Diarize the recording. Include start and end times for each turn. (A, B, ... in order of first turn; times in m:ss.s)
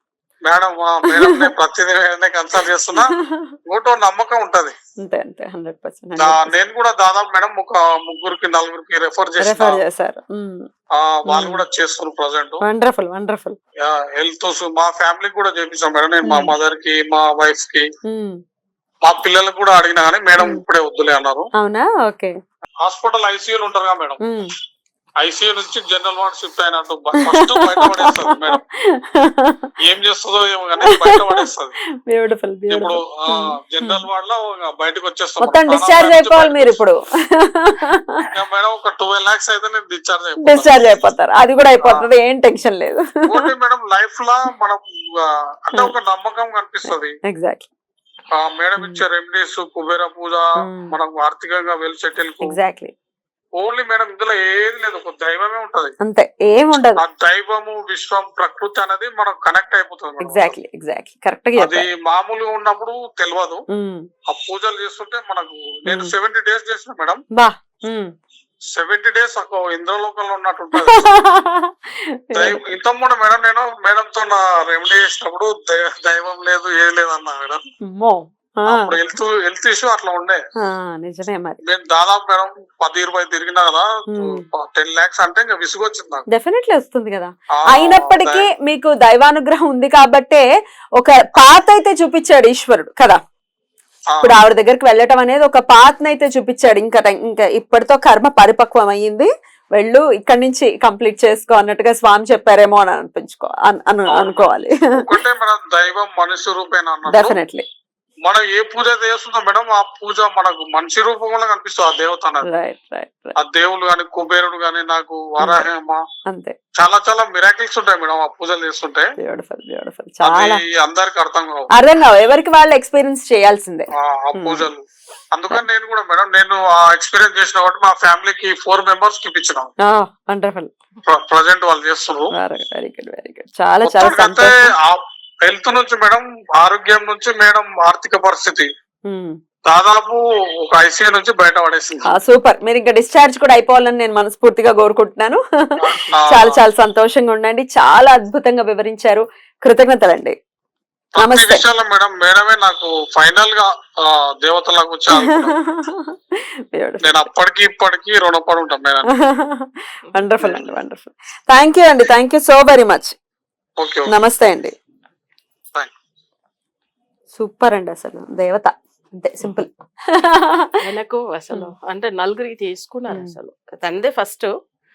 0:00.5-0:03.1 A
0:01.2-0:01.5 B
0:03.0-0:03.5 B
0:03.7-0:04.8 A
0:05.0-0:06.5 B
0:06.2-0:09.8 A
0:09.4-0:10.7 B
0:11.0-0:12.6 A
0:11.3-0:11.6 B
0:12.6-0:13.6 B
0:13.8-0:17.8 A
0:16.2-0:16.6 B
0:18.1-0:18.4 B
0:19.0-0:21.5 A
0:21.6-0:22.3 B
0:22.8-0:24.2 A
0:24.2-0:24.5 B
0:25.2-0:28.6 A
0:27.3-0:28.6 B
0:29.2-0:29.6 B
0:29.8-0:31.7 A
0:30.9-0:31.4 B
0:32.1-0:34.0 B
0:32.7-0:36.8 A
0:35.4-0:38.2 B
0:38.3-0:40.8 A
0:40.4-0:43.0 B
0:41.8-0:42.1 A
0:43.3-0:47.2 A
0:46.9-0:47.7 B
0:48.3-0:52.5 A
0:48.8-0:49.0 B
0:50.6-0:50.9 B
0:52.4-0:52.9 B
0:53.6-0:55.9 A
0:56.0-0:57.0 B
0:57.0-1:00.6 A
1:00.2-1:01.9 B
1:01.6-1:03.6 A
1:03.7-1:04.0 B
1:04.3-1:07.2 A
1:05.9-1:06.1 B
1:07.4-1:08.1 B
1:08.8-1:11.1 A
1:10.8-1:11.7 B
1:12.3-1:12.6 B
1:12.4-1:17.6 A
1:17.8-1:19.0 B
1:18.7-1:20.4 A
1:20.6-1:21.6 B
1:21.6-1:26.3 A
1:24.1-1:24.4 B
1:26.3-1:30.4 B
1:27.6-1:28.5 A
1:31.0-1:33.2 B
1:34.2-1:44.7 B
1:44.1-1:47.4 A
1:47.1-1:47.7 B
1:48.3-1:52.5 A
1:52.4-1:53.4 B
1:53.4-1:56.0 A
1:55.4-1:55.7 B
1:56.3-1:56.6 B
1:56.8-1:59.1 A
1:59.2-2:00.6 B
2:00.2-2:01.7 A
2:01.7-2:04.7 B
2:04.0-2:09.7 A
2:09.9-2:10.7 B
2:11.1-2:12.3 A
2:12.4-2:14.5 B
2:13.8-2:18.7 A
2:19.1-2:19.4 B
2:19.7-2:22.1 A
2:22.1-2:25.4 B
2:25.8-2:26.6 A
2:26.3-2:30.4 B
2:31.2-2:35.6 A
2:31.2-2:31.6 B
2:35.2-2:36.2 B
2:36.7-2:37.3 B
2:37.0-2:39.1 A
2:39.2-2:43.2 B
2:43.8-2:44.1 A
2:44.1-2:44.7 B
2:47.4-2:50.6 B
2:50.8-2:54.5 C
2:53.1-2:53.4 B